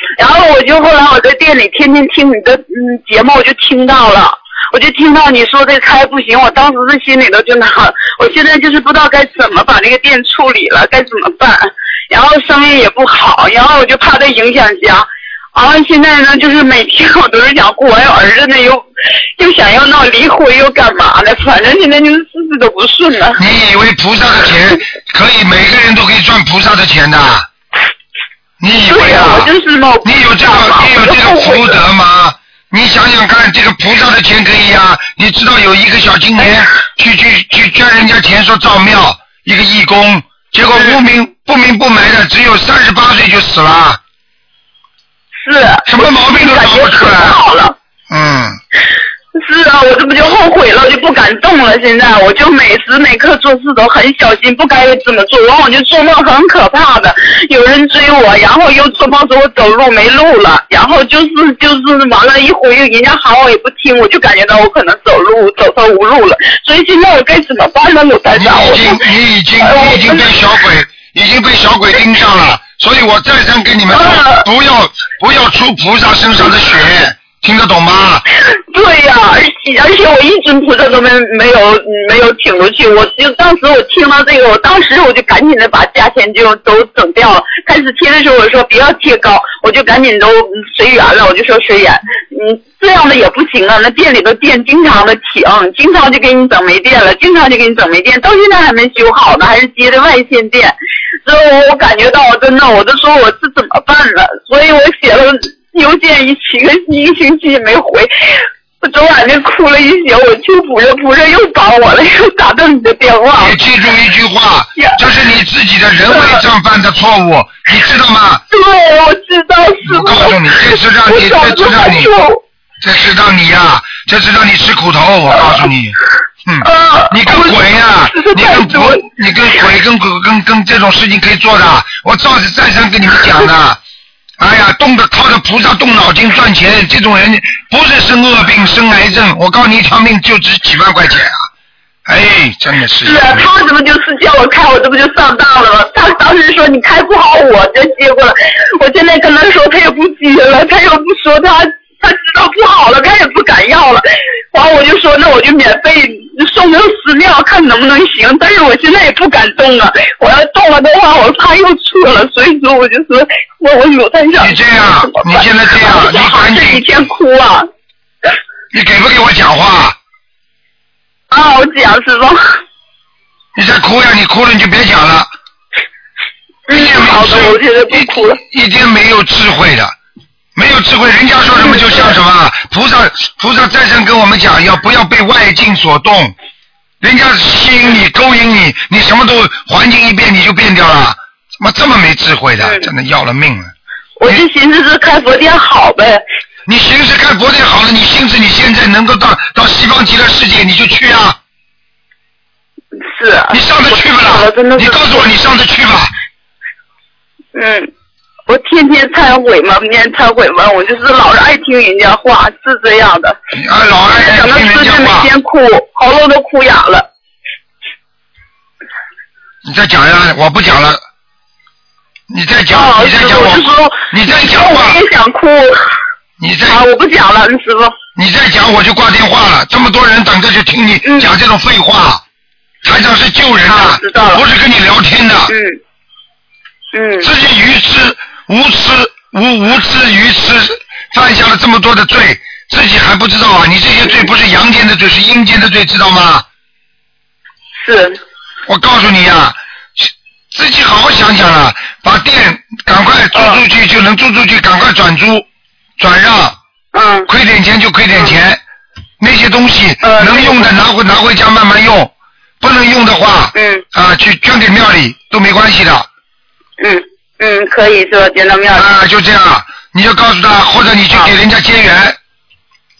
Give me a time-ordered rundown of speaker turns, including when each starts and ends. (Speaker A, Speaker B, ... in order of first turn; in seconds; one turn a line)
Speaker A: 0.2-18.9
Speaker A: 19.4-23.4
Speaker B: 23.4-27.5
Speaker B: 28.6-29.5
Speaker A: 28.9-31.8
Speaker B: 30.0-44.0
Speaker A: 45.4-47.8
Speaker B: 45.8-47.4
Speaker B: 48.1-48.6
Speaker A: 49.3-69.0
Speaker B: 68.3-78.2
Speaker A: 69.6-70.3
Speaker A: 73.9-74.5
Speaker A: 78.6-113.5
Speaker B: 113.4-118.4
Speaker A: 116.1-116.4
Speaker A: 118.5-122.4
Speaker B: 119.8-122.1
Speaker B: 122.8-133.8
Speaker A: 126.6-127.6
Speaker A: 128.1-129.0
Speaker B: 134.4-141.4
Speaker B: 142.1-143.5
Speaker A: 143.0-167.7
Speaker B: 164.4-166.8
Speaker B: 168.7-169.9
Speaker A: 171.3-172.6
Speaker B: 173.5-175.3
Speaker A: 176.7-178.4
Speaker B: 176.7-179.9
Speaker B: 180.5-186.3
Speaker A: 181.6-182.2
Speaker B: 187.0-193.7
Speaker A: 192.6-192.9
Speaker A: 194.2-196.2
Speaker B: 196.7-201.4
Speaker A: 203.1-205.3
Speaker B: 203.5-206.1
Speaker A: 207.5-207.9
Speaker A: 208.5-213.4
Speaker B: 213.5-215.3
Speaker A: 214.1-217.1
Speaker B: 219.6-221.0
Speaker B: 222.3-225.0
Speaker A: 222.7-225.9
Speaker B: 226.4-226.8
Speaker A: 226.7-227.9
Speaker B: 228.2-232.2
Speaker A: 231.0-231.3
Speaker B: 232.8-235.5
Speaker A: 233.7-234.4
Speaker A: 235.5-235.8
Speaker A: 236.9-237.3
Speaker B: 237.2-246.4
Speaker A: 247.8-248.2
Speaker B: 248.7-255.4
Speaker A: 253.3-253.6
Speaker B: 256.0-256.6
Speaker A: 256.9-257.3
Speaker B: 257.3-258.6
Speaker B: 259.2-266.1
Speaker A: 260.0-260.7
Speaker A: 263.5-263.8
Speaker A: 266.8-268.9
Speaker B: 268.7-272.2